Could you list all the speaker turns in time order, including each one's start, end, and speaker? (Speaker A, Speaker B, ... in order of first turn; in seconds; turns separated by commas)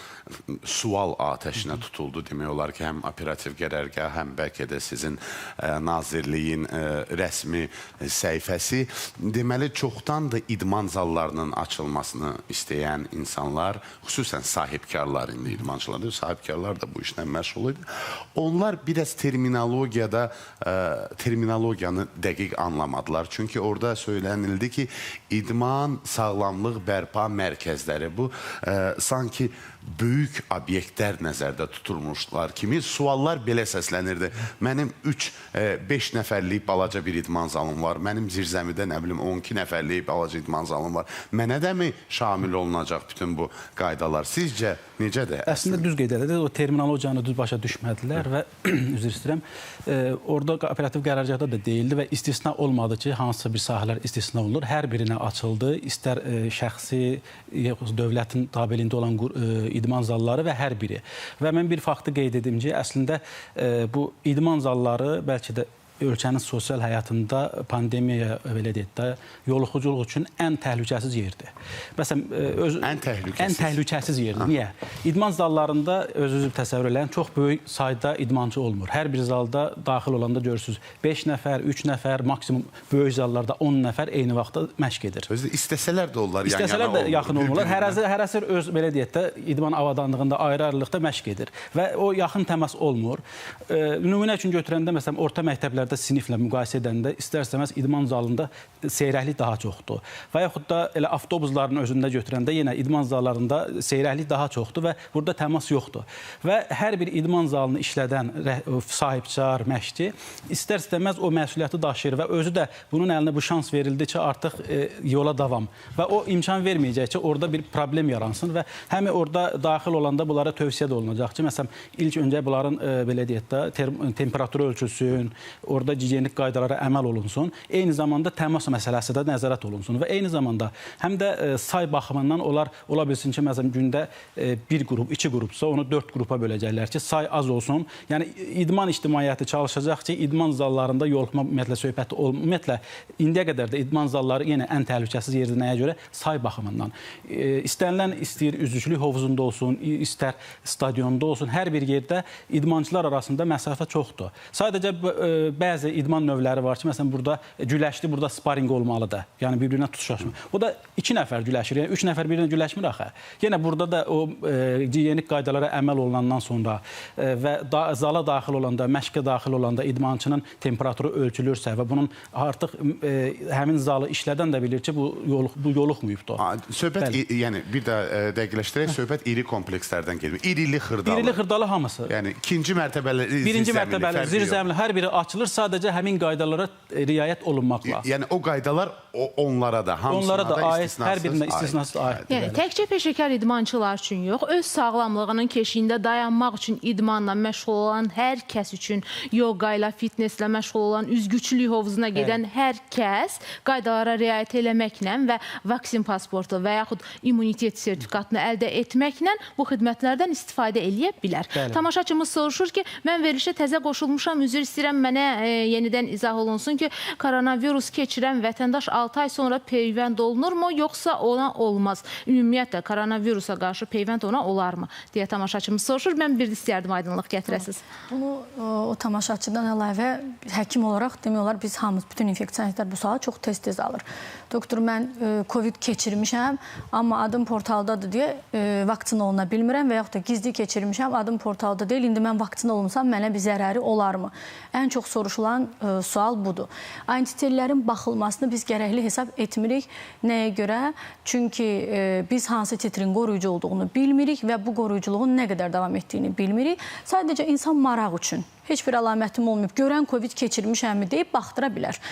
Speaker A: 0.3-45.8, Speaker B: 45.5-85.3, Speaker A: 72.8-73.8, Speaker A: 85.3-88.0, Speaker B: 86.4-176.4, Speaker A: 176.4-181.4, Speaker B: 181.0-182.1, Speaker A: 182.1-184.6, Speaker B: 183.4-188.0, Speaker A: 187.8-192.4, Speaker B: 190.1-192.6, Speaker C: 192.3-227.8, Speaker B: 202.1-202.4, Speaker B: 211.5-211.8, Speaker D: 227.5-262.0